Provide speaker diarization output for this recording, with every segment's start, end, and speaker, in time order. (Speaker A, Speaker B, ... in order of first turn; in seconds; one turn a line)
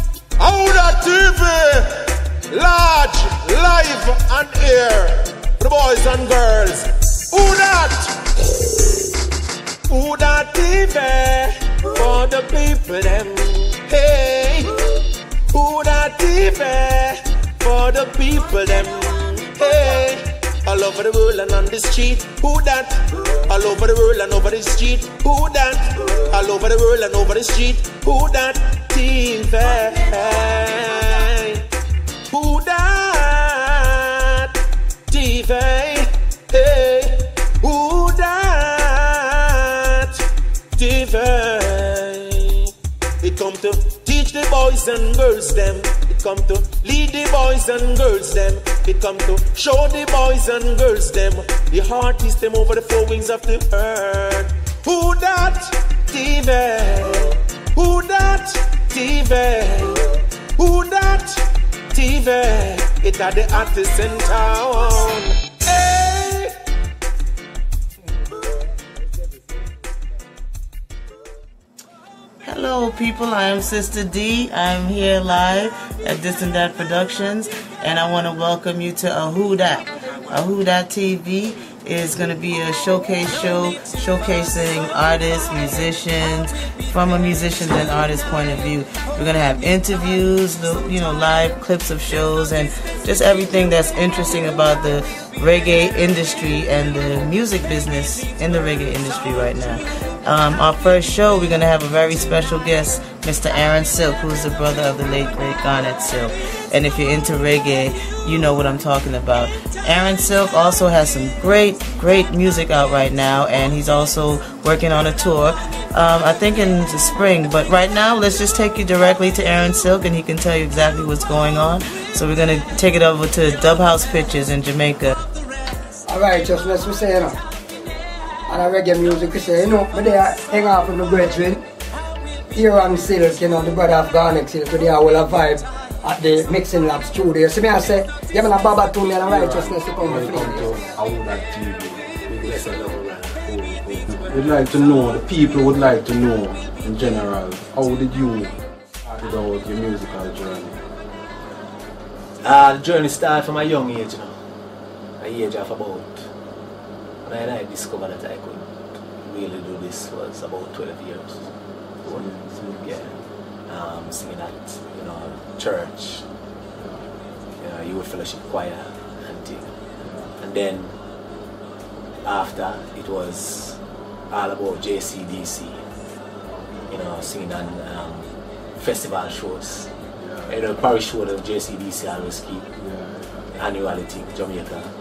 Speaker A: 0.4-8.7
Speaker A: 9.9-31.7
Speaker A: 32.3-34.5
Speaker A: 35.1-40.2
Speaker A: 40.8-66.6
Speaker B: 72.4-125.2
Speaker C: 126.1-127.4
Speaker C: 128.5-131.6
Speaker C: 132.6-140.8
Speaker D: 139.3-142.8
Speaker E: 142.4-144.2
Speaker D: 143.5-150.8
Speaker E: 152.4-154.3
Speaker E: 155.2-156.2
Speaker E: 157.2-161.5
Speaker E: 162.0-163.1
Speaker D: 162.1-163.2
Speaker E: 163.7-166.3
Speaker D: 166.8-167.1
Speaker E: 167.6-169.7
Speaker D: 170.0-170.3
Speaker E: 170.4-171.0
Speaker E: 172.2-175.8
Speaker D: 176.4-177.2
Speaker E: 176.9-179.9
Speaker D: 180.2-180.7
Speaker E: 180.5-182.7
Speaker D: 182.8-183.6
Speaker E: 183.5-184.9